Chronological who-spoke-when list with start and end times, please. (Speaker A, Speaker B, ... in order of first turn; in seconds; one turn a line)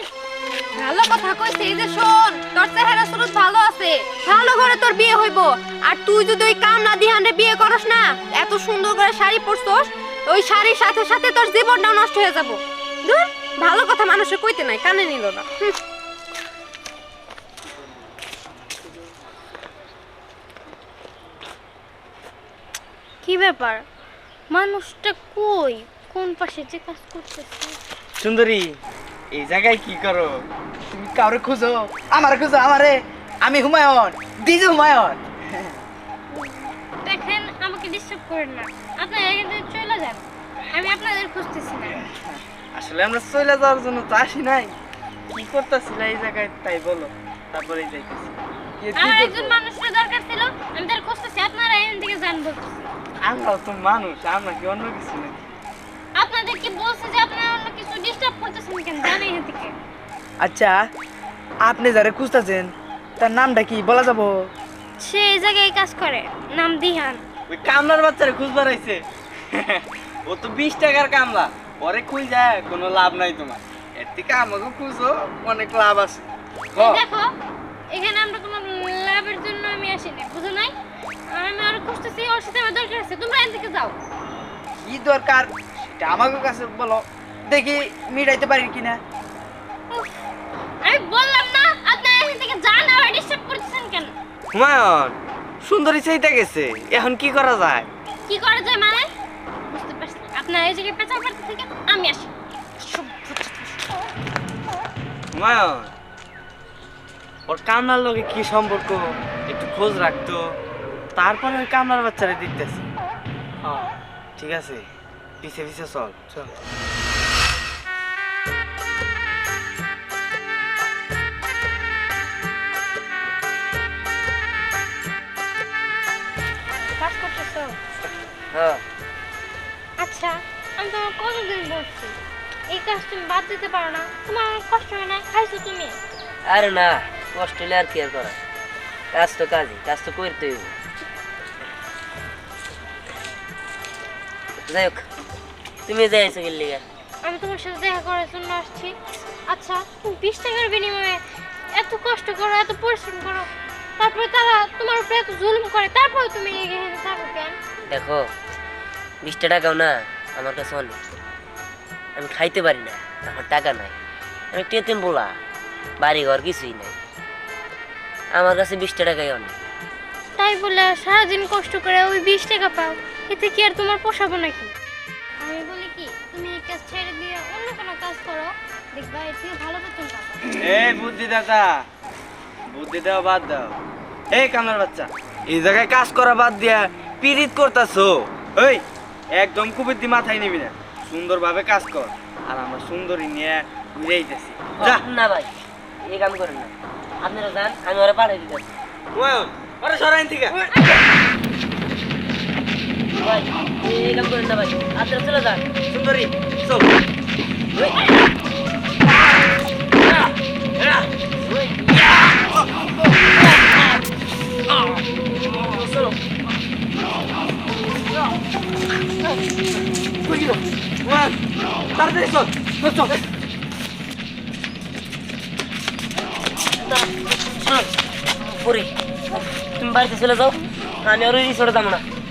Speaker A: 0.8-15.8
Speaker B: 23.2-23.9
Speaker B: 24.5-27.8
Speaker C: 28.2-28.8
Speaker C: 29.3-30.4
Speaker D: 30.9-35.2
Speaker B: 36.3-42.0
Speaker C: 42.7-44.7
Speaker C: 45.3-48.3
Speaker D: 48.8-49.5
Speaker B: 49.0-52.9
Speaker C: 53.2-55.5
Speaker B: 56.1-59.8
Speaker D: 60.4-60.8
Speaker D: 61.6-64.5
Speaker B: 65.0-67.2
Speaker C: 67.5-76.3
Speaker B: 76.7-77.3
Speaker B: 77.9-80.7
Speaker B: 81.3-83.9
Speaker D: 84.8-89.0
Speaker B: 90.8-94.1
Speaker C: 94.5-97.9
Speaker B: 98.3-99.1
Speaker B: 99.7-103.8
Speaker C: 105.3-105.9
Speaker C: 107.5-110.6
Speaker C: 111.2-112.8
Speaker C: 113.6-114.8
Speaker C: 115.4-116.4
Speaker B: 127.0-127.8
Speaker E: 128.5-128.8
Speaker B: 130.0-132.2
Speaker B: 132.7-136.0
Speaker E: 136.4-138.4
Speaker E: 139.1-140.7
Speaker E: 144.7-145.0
Speaker E: 145.8-146.8
Speaker B: 147.2-151.2
Speaker B: 151.7-157.6
Speaker E: 157.9-158.2
Speaker E: 159.2-161.0
Speaker E: 162.2-163.9
Speaker E: 164.5-165.3
Speaker E: 166.0-167.0
Speaker E: 168.3-169.5
Speaker B: 170.4-174.7
Speaker B: 175.4-180.4
Speaker C: 180.6-181.8
Speaker C: 182.7-183.7
Speaker C: 184.3-195.0
Speaker E: 194.8-195.5
Speaker E: 196.0-198.7
Speaker C: 199.1-200.7
Speaker E: 203.2-205.6
Speaker C: 205.9-206.8
Speaker C: 221.1-221.3
Speaker C: 221.9-223.1
Speaker E: 226.8-227.9
Speaker E: 228.5-232.0